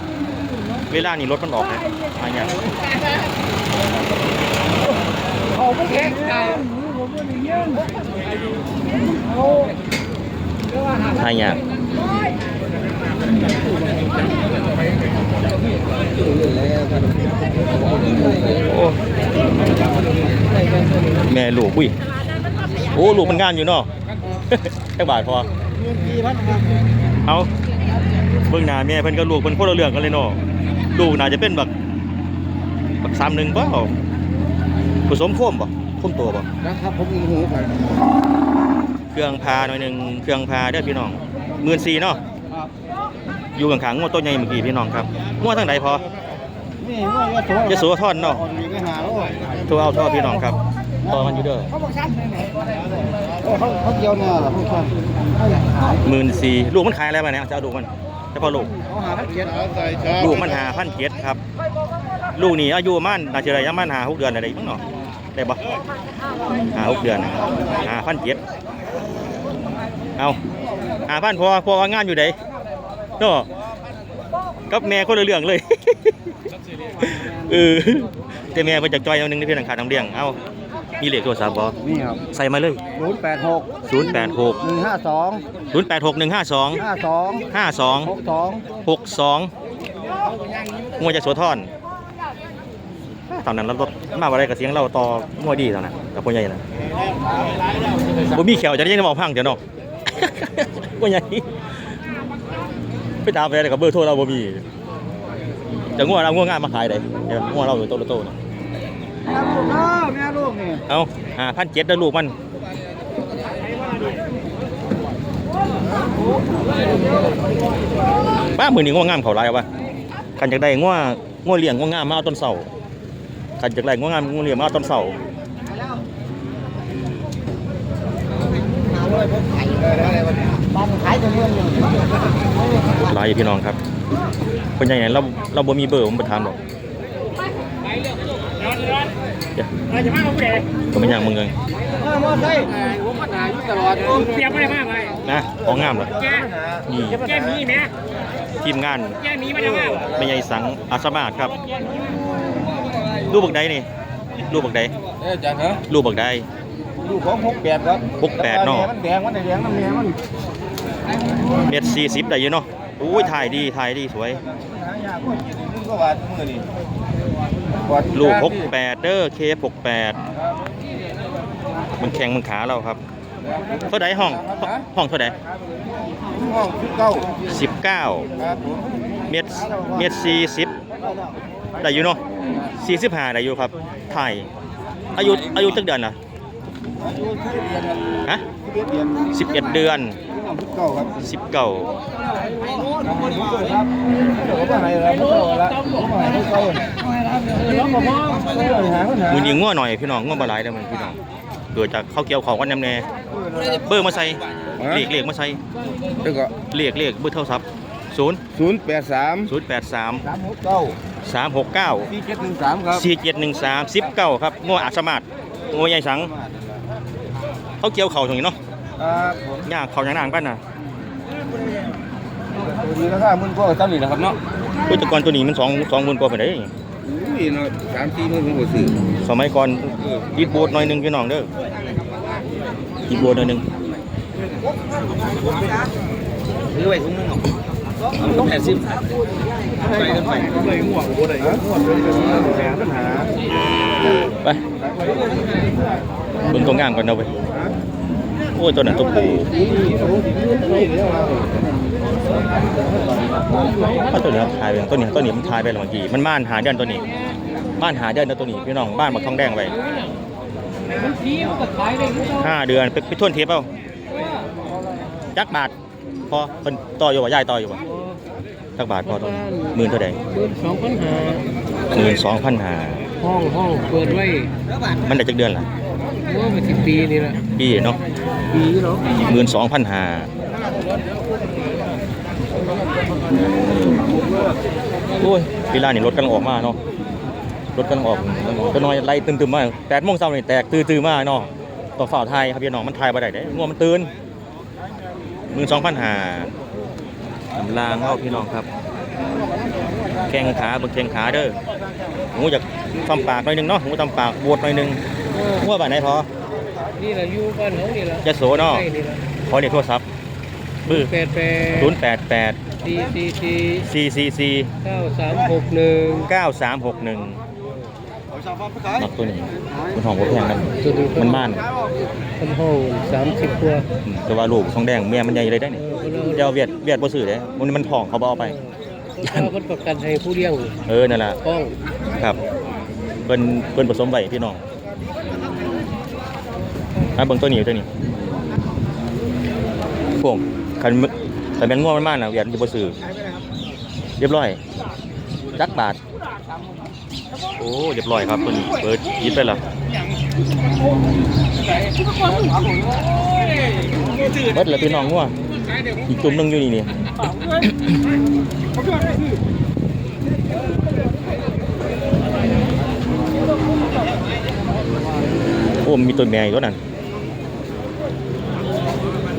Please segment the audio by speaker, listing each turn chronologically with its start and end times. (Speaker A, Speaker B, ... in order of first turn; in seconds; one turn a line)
Speaker A: 0.9-2.6
Speaker B: 5.7-6.7
Speaker A: 11.1-11.6
Speaker C: 16.1-18.6
Speaker A: 18.7-19.0
Speaker A: 21.3-21.9
Speaker A: 22.9-23.9
Speaker A: 24.5-25.5
Speaker C: 25.8-26.8
Speaker A: 28.5-30.4
Speaker A: 30.9-31.7
Speaker A: 33.0-33.9
Speaker A: 35.1-36.5
Speaker C: 36.6-38.0
Speaker A: 39.1-42.2
Speaker A: 43.5-46.0
Speaker C: 46.8-49.6
Speaker A: 47.7-48.4
Speaker A: 49.7-50.6
Speaker C: 51.0-56.0
Speaker A: 51.1-51.7
Speaker A: 56.0-58.7
Speaker C: 58.7-60.5
Speaker A: 60.1-61.4
Speaker A: 62.4-64.8
Speaker A: 65.3-65.6
Speaker A: 66.7-68.4
Speaker A: 71.1-72.4
Speaker A: 73.2-73.5
Speaker A: 74.7-76.3
Speaker A: 77.0-80.4
Speaker A: 81.0-81.8
Speaker C: 81.8-82.2
Speaker A: 82.3-82.8
Speaker C: 82.9-85.4
Speaker A: 83.9-84.6
Speaker A: 85.7-86.8
Speaker C: 86.8-87.5
Speaker A: 87.5-88.1
Speaker C: 88.0-88.7
Speaker A: 88.8-89.5
Speaker A: 91.0-91.7
Speaker A: 93.3-96.6
Speaker A: 98.3-99.6
Speaker A: 100.1-101.5
Speaker A: 103.2-104.6
Speaker A: 106.0-108.3
Speaker C: 109.2-110.8
Speaker A: 110.9-112.3
Speaker A: 118.5-119.7
Speaker A: 120.4-122.7
Speaker A: 123.6-125.2
Speaker C: 128.6-132.1
Speaker C: 132.7-133.0
Speaker A: 132.9-133.8
Speaker A: 134.8-136.6
Speaker B: 137.8-139.1
Speaker B: 139.9-140.6
Speaker A: 140.9-141.5
Speaker C: 141.9-144.6
Speaker B: 144.1-145.2
Speaker A: 145.2-146.1
Speaker C: 145.6-147.7
Speaker B: 146.2-147.9
Speaker A: 146.9-147.3
Speaker A: 148.6-149.2
Speaker B: 149.2-150.1
Speaker C: 149.5-150.4
Speaker A: 150.1-151.5
Speaker A: 153.3-153.9
Speaker A: 154.5-154.9
Speaker C: 155.2-155.8
Speaker A: 155.9-156.5
Speaker C: 157.0-160.2
Speaker A: 158.2-158.9
Speaker A: 161.7-164.4
Speaker C: 164.4-166.7
Speaker C: 167.8-168.7
Speaker A: 168.1-170.2
Speaker A: 172.0-173.0
Speaker C: 173.4-174.8
Speaker A: 173.8-175.3
Speaker C: 176.2-177.4
Speaker A: 177.5-178.3
Speaker C: 178.4-179.0
Speaker A: 179.3-180.7
Speaker C: 179.6-180.1
Speaker C: 180.9-181.4
Speaker A: 181.8-182.2
Speaker A: 182.8-184.5
Speaker A: 185.1-186.2
Speaker C: 187.0-189.5
Speaker A: 189.3-190.2
Speaker C: 190.2-191.2
Speaker A: 191.2-191.9
Speaker C: 192.7-199.6
Speaker B: 197.7-198.5
Speaker A: 199.3-201.2
Speaker A: 201.7-203.0
Speaker C: 203.3-204.0
Speaker A: 203.8-205.6
Speaker C: 204.8-205.1
Speaker C: 206.2-206.5
Speaker A: 206.7-208.4
Speaker C: 208.5-209.5
Speaker A: 209.4-210.2
Speaker C: 210.2-211.0
Speaker A: 211.2-212.1
Speaker C: 212.1-213.1
Speaker A: 212.9-216.3
Speaker C: 215.7-216.8
Speaker A: 217.8-218.6
Speaker C: 219.0-219.7
Speaker A: 219.7-220.6
Speaker C: 222.5-224.4
Speaker A: 224.9-226.7
Speaker C: 227.0-229.0
Speaker A: 229.2-231.5
Speaker A: 233.1-233.6
Speaker C: 235.3-235.7
Speaker C: 236.7-237.5
Speaker C: 238.1-239.1
Speaker C: 239.7-243.3
Speaker C: 244.8-245.8
Speaker A: 246.5-247.3
Speaker C: 247.5-247.7
Speaker A: 248.5-249.5
Speaker C: 248.9-251.7
Speaker C: 252.7-254.1
Speaker A: 254.1-257.0
Speaker A: 257.8-259.7
Speaker B: 259.7-260.2
Speaker B: 260.9-262.4
Speaker A: 262.4-263.7
Speaker B: 264.1-264.5
Speaker A: 265.3-265.7
Speaker A: 266.3-267.8
Speaker A: 268.8-270.2
Speaker B: 269.0-271.4
Speaker A: 271.9-273.0
Speaker B: 273.2-274.5
Speaker A: 275.0-275.7
Speaker B: 276.2-277.4
Speaker A: 277.6-278.0
Speaker B: 278.5-279.2
Speaker A: 279.1-280.3
Speaker A: 285.2-286.8
Speaker A: 287.7-294.1
Speaker A: 295.5-296.5
Speaker A: 297.5-298.7
Speaker A: 300.3-301.6
Speaker A: 302.3-306.3
Speaker B: 307.0-309.2
Speaker A: 308.2-308.9
Speaker A: 309.4-310.0
Speaker B: 310.9-312.0
Speaker A: 311.8-312.6
Speaker B: 312.8-313.9
Speaker A: 313.8-314.7
Speaker B: 314.8-316.3
Speaker A: 316.2-317.4
Speaker A: 318.9-321.6
Speaker B: 320.8-321.5
Speaker B: 322.4-323.9
Speaker A: 324.0-325.8
Speaker B: 325.8-326.5
Speaker A: 326.3-328.5
Speaker B: 328.4-330.8
Speaker A: 330.9-331.4
Speaker B: 331.4-331.8
Speaker A: 333.2-334.6
Speaker A: 337.2-337.9
Speaker A: 340.2-342.9
Speaker A: 344.2-344.6
Speaker A: 345.5-346.0
Speaker A: 347.5-349.6
Speaker B: 351.6-356.3
Speaker C: 352.3-352.8
Speaker A: 354.4-355.3
Speaker A: 356.1-357.0
Speaker B: 357.2-357.6
Speaker A: 357.6-358.0
Speaker B: 358.8-359.3
Speaker A: 365.8-366.8